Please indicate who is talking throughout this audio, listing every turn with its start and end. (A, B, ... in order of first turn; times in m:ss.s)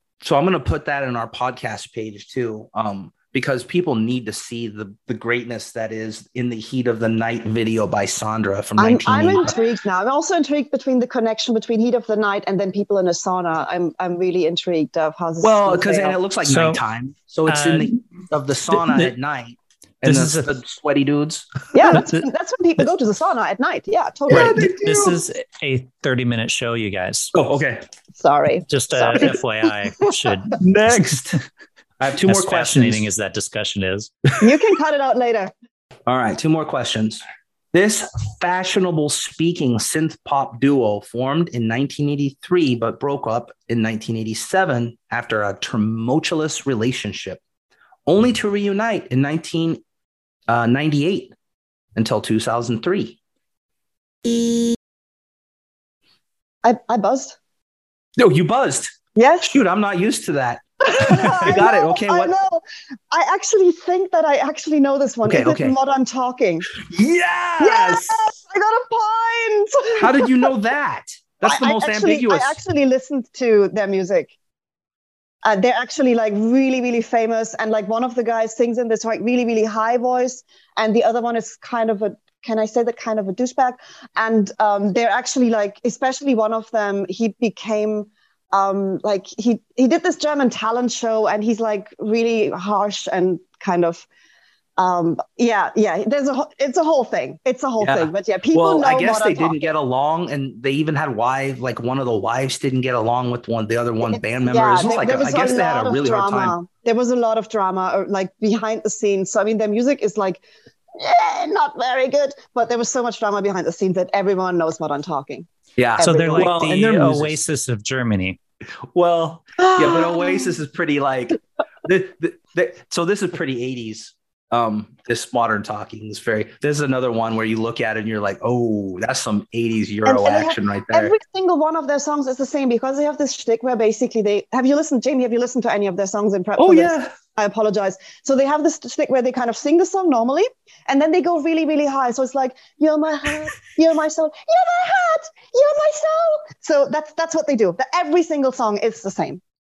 0:00.2-0:09.6 A
0:08.8-0:16.2 B
0:15.4-0:22.1 A
0:16.4-0:16.8 C
0:17.5-0:18.0 C
0:18.7-0:19.1 C
0:20.0-0:20.5 C
0:21.7-0:24.7 B
0:24.3-0:25.2 A
0:24.3-0:27.3 C
0:27.3-0:27.8 A
0:28.2-0:29.4 B
0:28.7-0:31.4 C
0:30.6-0:31.4 A
0:32.0-0:33.1 A
0:32.2-0:34.1 C
0:34.4-0:35.5 B
0:36.1-0:37.2 A
0:37.7-0:47.4 A
0:48.0-0:49.8 A
0:50.5-0:51.3 A
0:51.9-0:53.2 A
0:56.6-0:57.4 B
0:58.2-1:02.3 A
0:59.1-0:59.5 B
1:00.8-1:06.7 B
1:05.2-1:05.8 A
1:06.7-1:08.2 A
1:07.6-1:10.5 B
1:10.0-1:12.6 A
1:11.4-1:14.3 B
1:15.4-1:34.0 B
1:34.8-1:39.7 B
1:37.8-1:46.6 A
1:44.1-1:50.4 B
1:51.0-1:56.5 B
1:55.8-1:57.4 A
1:56.0-1:58.4 C
1:58.9-2:11.1 A
1:59.6-2:00.5 B
2:10.0-2:29.4 B
2:16.6-2:17.1 A